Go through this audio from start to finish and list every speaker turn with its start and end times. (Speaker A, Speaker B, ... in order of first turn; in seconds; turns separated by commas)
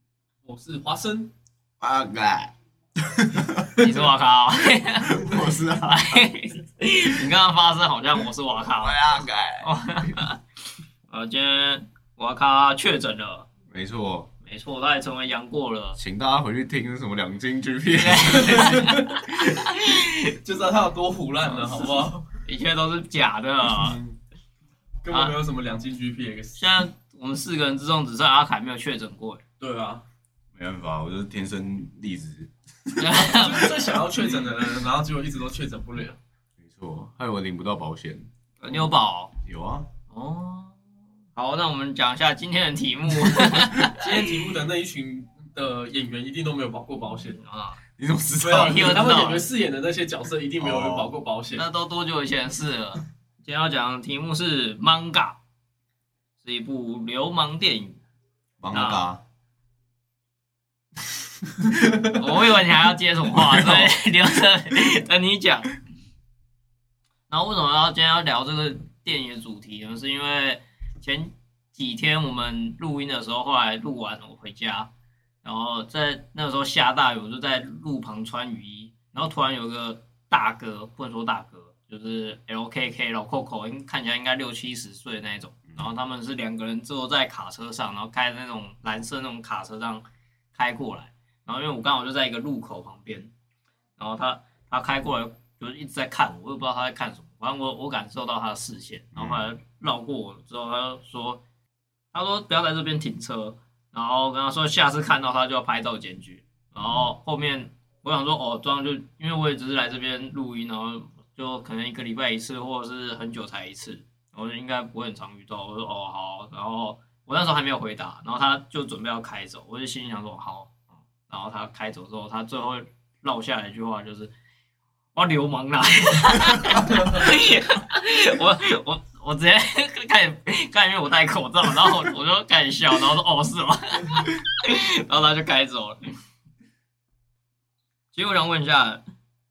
Speaker A: 0.5-1.3, Speaker B: 1.8-3.8, Speaker C: 3.8-10.4, Speaker B: 5.0-6.3, Speaker B: 8.8-10.2, Speaker C: 11.1-13.5, Speaker B: 13.7-14.3, Speaker C: 14.4-16.0, Speaker B: 16.0-19.5, Speaker C: 17.9-20.3, Speaker A: 20.4-22.3, Speaker C: 21.5-21.9, Speaker C: 22.4-24.0, Speaker A: 23.7-24.1, Speaker A: 25.0-26.7, Speaker C: 25.1-25.4, Speaker C: 26.6-29.4, Speaker A: 29.6-30.1, Speaker B: 30.6-34.0, Speaker C: 33.0-33.7, Speaker A: 33.1-36.2, Speaker B: 36.6-38.9, Speaker C: 38.6-39.3, Speaker B: 39.5-39.9, Speaker C: 40.1-40.8, Speaker C: 41.4-44.5, Speaker A: 43.8-47.4, Speaker C: 47.4-47.8, Speaker B: 48.0-49.0, Speaker A: 48.4-51.6, Speaker C: 48.5-49.5, Speaker B: 50.6-51.1, Speaker C: 51.5-55.4, Speaker C: 56.4-58.0, Speaker B: 58.6-59.2, Speaker C: 58.7-59.0, Speaker C: 62.1-65.7, Speaker B: 63.5-63.9, Speaker C: 67.3-74.9, Speaker C: 75.4-93.3, Speaker C: 94.0-101.4, Speaker B: 99.1-99.4, Speaker C: 102.1-120.8, Speaker C: 121.3-124.3, Speaker C: 125.1-136.0, Speaker C: 138.1-139.0